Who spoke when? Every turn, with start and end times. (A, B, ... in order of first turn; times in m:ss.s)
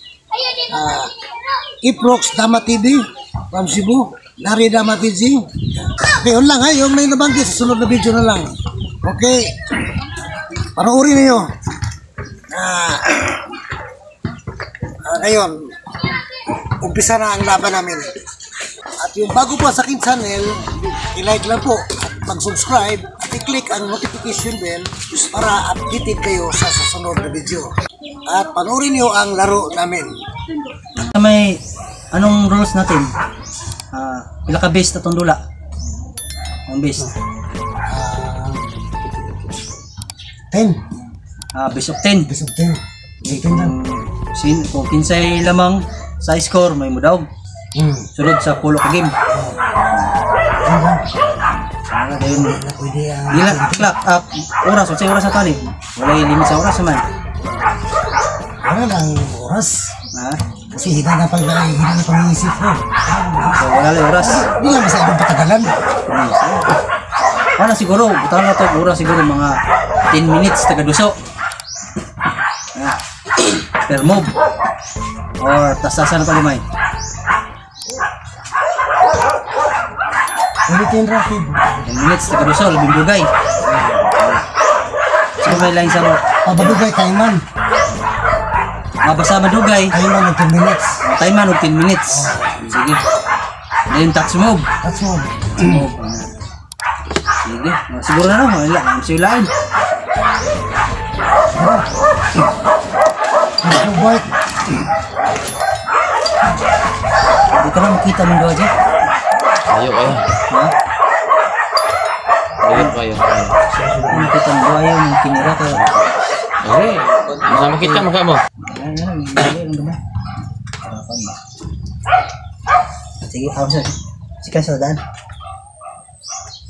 0:00.5-0:01.1 A
0:01.8-0:08.5 A
0:09.0-0:09.4 A
0:10.8-0:11.4 A
0:12.5-0:13.4 A
0:15.0-0:15.6 A
0:16.8-0:18.1 A
0:19.0-0:27.7 A
0:28.3-0:30.1 A
0:30.9-0:31.6 B
0:32.1-0:33.1 B
0:33.9-0:35.4 B
0:36.7-0:37.1 B
0:37.9-0:38.6 A
0:40.5-0:40.8 A
0:41.5-0:42.3 B
0:42.3-0:43.8 A
0:43.2-0:47.2 B
0:47.7-0:48.1 A
0:48.1-0:49.1 B
0:50.6-0:51.0 A
0:51.9-0:52.6 B
0:52.3-0:53.9 A
0:53.3-0:57.0 B
0:58.6-0:59.9 A
1:00.1-1:00.4 B
1:00.7-1:03.7 A
1:03.5-1:04.5 B
1:04.2-1:05.8 A
1:06.1-1:06.7 B
1:07.6-1:09.5 B
1:10.1-1:11.1 B
1:13.8-1:14.3 B
1:15.4-1:16.6 B
1:20.7-1:21.8 A
1:21.8-1:23.3 B
1:25.4-1:26.8 B
1:26.4-1:27.4 A
1:29.0-1:30.0 B
1:29.9-1:30.9 A
1:31.0-1:33.0 B
1:32.1-1:32.7 A
1:33.9-1:34.6 B
1:34.8-1:35.8 A
1:35.6-1:36.3 B
1:37.4-1:39.5 B
1:41.5-1:41.8 A
1:43.6-1:44.3 A
1:47.5-1:48.7 B
1:49.7-1:50.2 C
1:50.5-1:50.7 B
1:52.6-1:53.6 C
1:52.7-1:52.9 B
1:54.0-1:56.0 B
1:56.6-1:58.4 C
1:57.6-2:00.0 B
2:00.8-2:01.4 B
2:03.2-2:05.0 B